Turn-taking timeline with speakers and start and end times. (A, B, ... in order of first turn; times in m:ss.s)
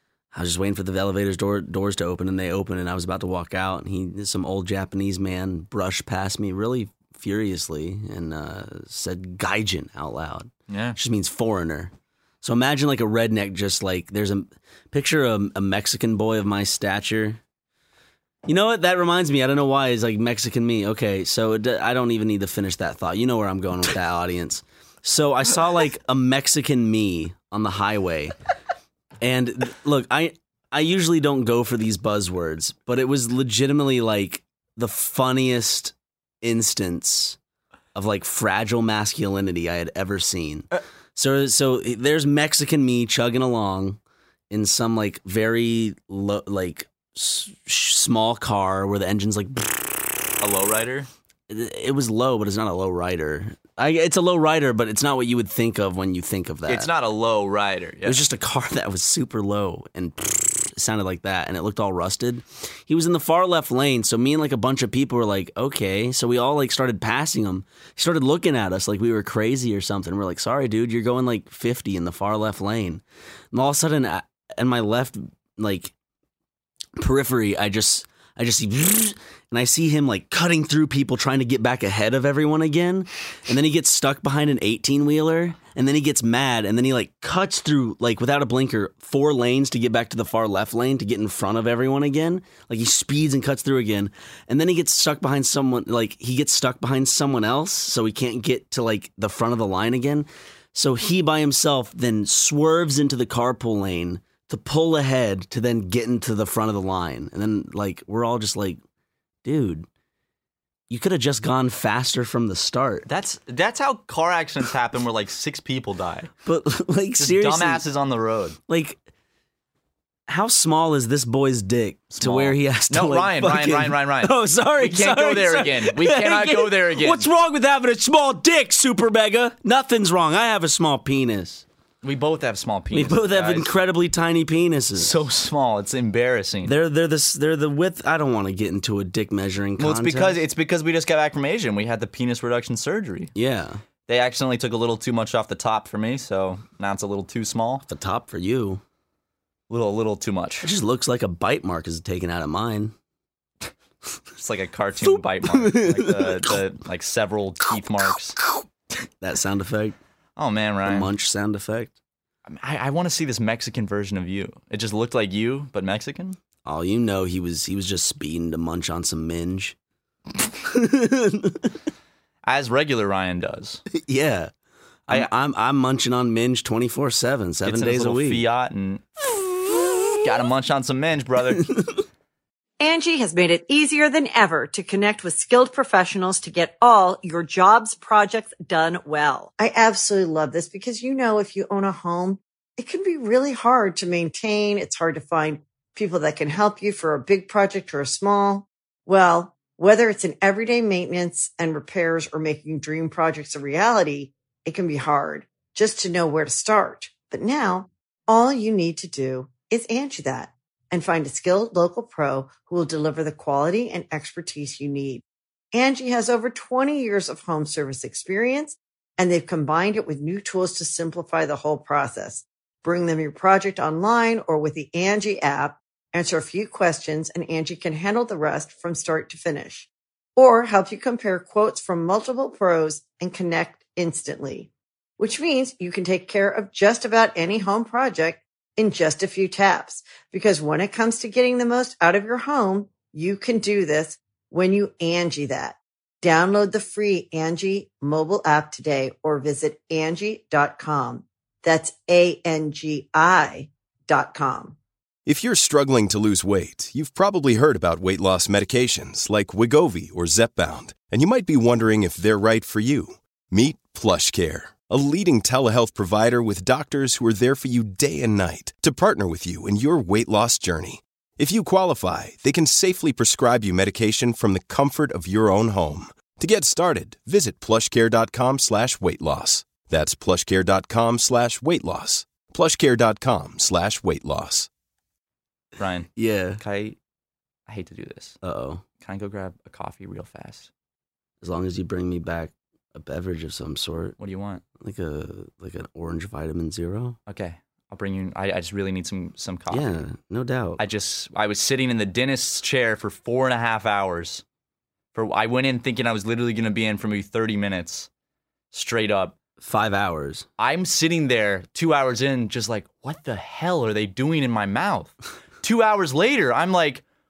0:00.3-0:17.4 A
0:10.7-0:11.0 B
0:18.4-0:28.3 A
0:29.2-0:37.4 A
0:37.9-0:44.0 A
0:44.5-0:50.2 A
0:50.4-0:51.1 B
0:51.5-0:56.9 A
0:56.7-0:58.2 B
0:58.0-1:15.9 A
1:17.0-1:48.8 A
1:49.4-1:49.9 A
1:50.9-1:53.1 A
1:53.0-1:56.3 B
1:56.4-1:57.8 A
1:57.2-1:58.6 B
1:58.7-1:59.0 A
2:00.3-2:11.6 A
2:02.1-2:07.3 B
2:12.0-2:13.7 B
2:12.9-2:15.2 A
2:15.0-2:16.8 B
2:16.6-2:20.4 A
2:19.8-2:23.3 B
2:23.4-2:23.8 A
2:24.1-2:27.8 B
2:27.9-2:28.8 A
2:29.7-2:30.7 B
2:30.6-2:32.9 A
2:34.4-2:38.4 B
2:35.0-2:36.6 A
2:39.2-2:40.0 A
2:40.4-2:41.1 B
2:40.9-2:41.9 A
2:42.5-2:46.4 B
2:46.6-2:49.8 A
2:50.6-2:51.8 A
2:52.4-2:53.8 B
2:53.9-2:54.5 A
2:55.1-2:58.4 A
2:57.6-2:59.0 B
3:00.1-3:01.7 B
3:02.8-4:14.8 C
4:15.2-4:44.7 D
4:45.8-4:47.0 B
4:46.2-4:46.6 A
4:47.7-4:48.4 B
4:48.4-4:48.8 A
4:49.0-4:50.7 B
4:51.4-4:54.1 A
4:54.2-4:54.6 B
4:54.8-4:57.2 A
4:57.3-5:00.0 B
4:59.7-5:00.8 A
5:00.8-5:04.4 B
5:05.1-5:08.1 B
5:08.7-5:09.4 B
5:09.6-5:10.5 A
5:10.6-5:17.0 B